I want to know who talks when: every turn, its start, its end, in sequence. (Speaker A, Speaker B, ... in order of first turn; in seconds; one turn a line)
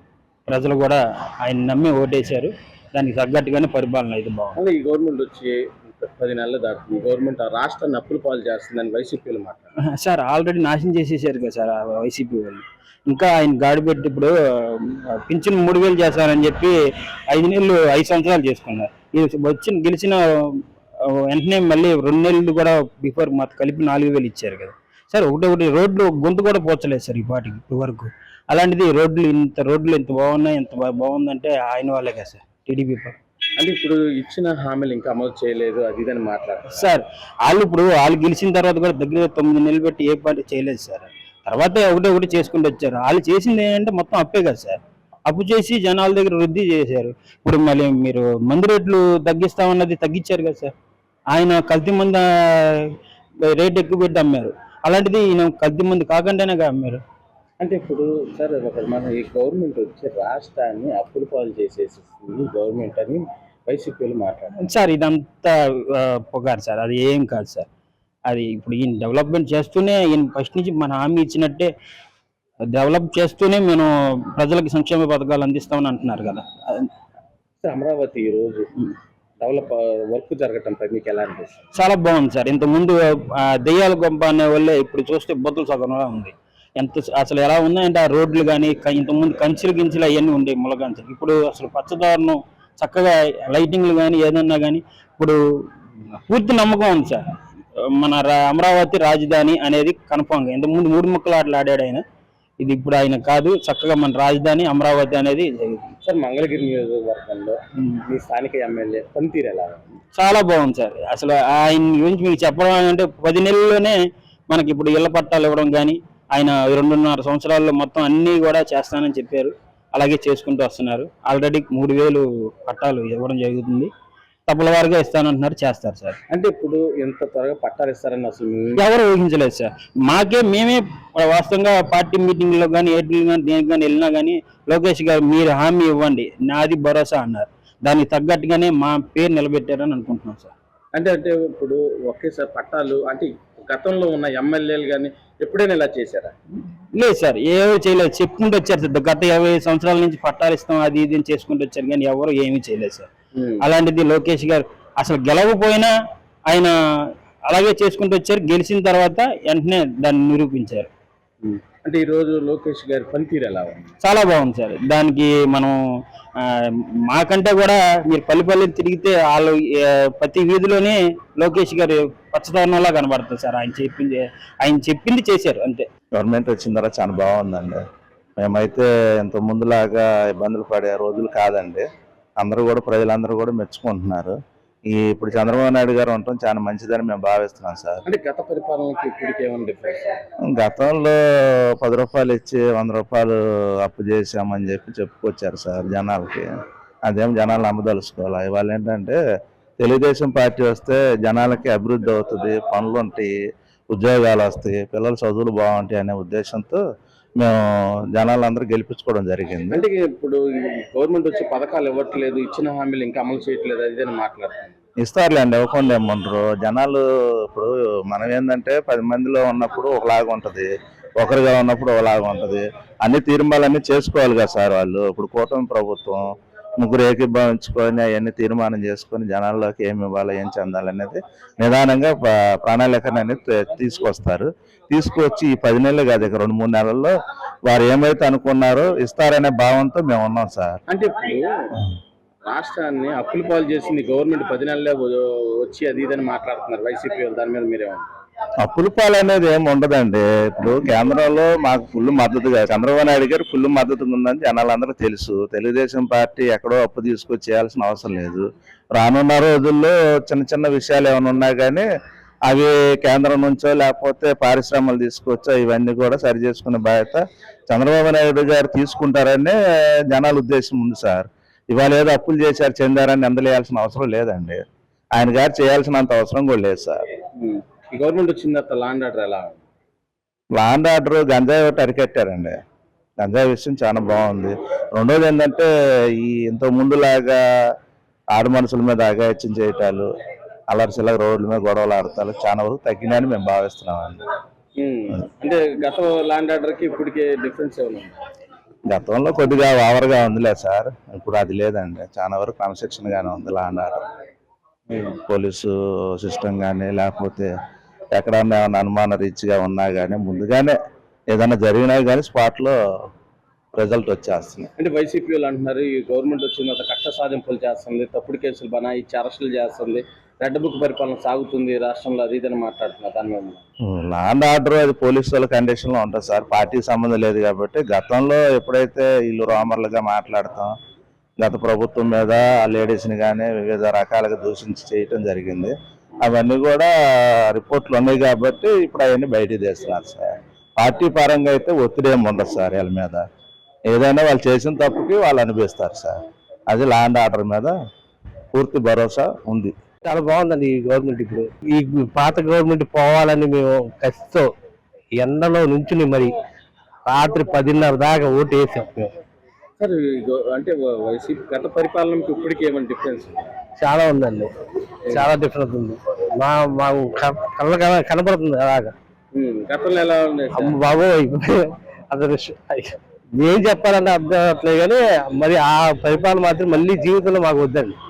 Speaker A: 0.5-4.6
Speaker B: 4.5-9.7
Speaker A: 10.0-16.8
Speaker A: 17.3-20.6
Speaker A: 21.3-33.1
Speaker B: 33.6-36.9
Speaker A: 36.7-44.8
Speaker A: 45.3-50.7
Speaker A: 51.3-52.2
Speaker A: 53.5-57.0
Speaker B: 57.6-64.7
Speaker A: 64.6-67.7
Speaker A: 68.3-71.7
Speaker A: 72.7-76.9
Speaker B: 77.6-78.7
Speaker B: 79.4-81.7
Speaker A: 81.7-95.4
Speaker A: 96.3-97.2
Speaker A: 98.0-102.0
Speaker A: 102.6-105.9
Speaker B: 106.0-109.9
Speaker A: 110.2-113.9
Speaker A: 114.5-123.9
Speaker A: 124.5-126.2
Speaker B: 126.3-128.8
Speaker A: 128.8-140.5
Speaker B: 140.9-146.3
Speaker A: 146.9-153.1
Speaker B: 153.3-153.6
Speaker A: 153.6-155.9
Speaker A: 157.5-160.9
Speaker B: 161.4-163.9
Speaker A: 164.0-165.8
Speaker A: 166.4-175.8
Speaker C: 176.2-177.8
Speaker C: 178.4-181.8
Speaker C: 182.4-184.3
Speaker C: 184.9-188.0
Speaker B: 188.1-190.2
Speaker C: 190.5-196.5
Speaker C: 197.1-199.2
Speaker C: 199.8-203.3
Speaker C: 203.9-206.8
Speaker C: 207.4-209.9
Speaker B: 209.7-214.8
Speaker C: 215.0-220.7
Speaker C: 221.2-226.2
Speaker C: 226.8-237.1
Speaker C: 237.7-240.8
Speaker B: 240.9-241.5
Speaker B: 242.4-248.1
Speaker C: 248.6-261.9
Speaker C: 262.5-269.6
Speaker C: 270.1-274.6
Speaker C: 275.1-277.0
Speaker B: 277.4-279.6
Speaker C: 280.5-282.5
Speaker C: 283.2-287.4
Speaker C: 288.3-290.1
Speaker C: 290.7-294.2
Speaker B: 294.8-298.2
Speaker C: 298.9-304.0
Speaker B: 304.9-305.2
Speaker C: 305.3-307.5
Speaker C: 308.1-310.7
Speaker C: 311.3-312.7
Speaker C: 313.7-314.7
Speaker B: 314.8-323.6
Speaker C: 323.9-330.7
Speaker C: 331.4-340.3
Speaker C: 340.8-343.2
Speaker C: 343.9-346.1
Speaker C: 346.7-347.7
Speaker C: 348.5-349.7
Speaker D: 350.0-354.5
Speaker D: 355.2-356.3
Speaker D: 357.1-359.1
Speaker B: 359.8-363.5
Speaker D: 363.8-364.5
Speaker D: 365.1-368.9
Speaker B: 369.3-370.8
Speaker D: 370.6-377.9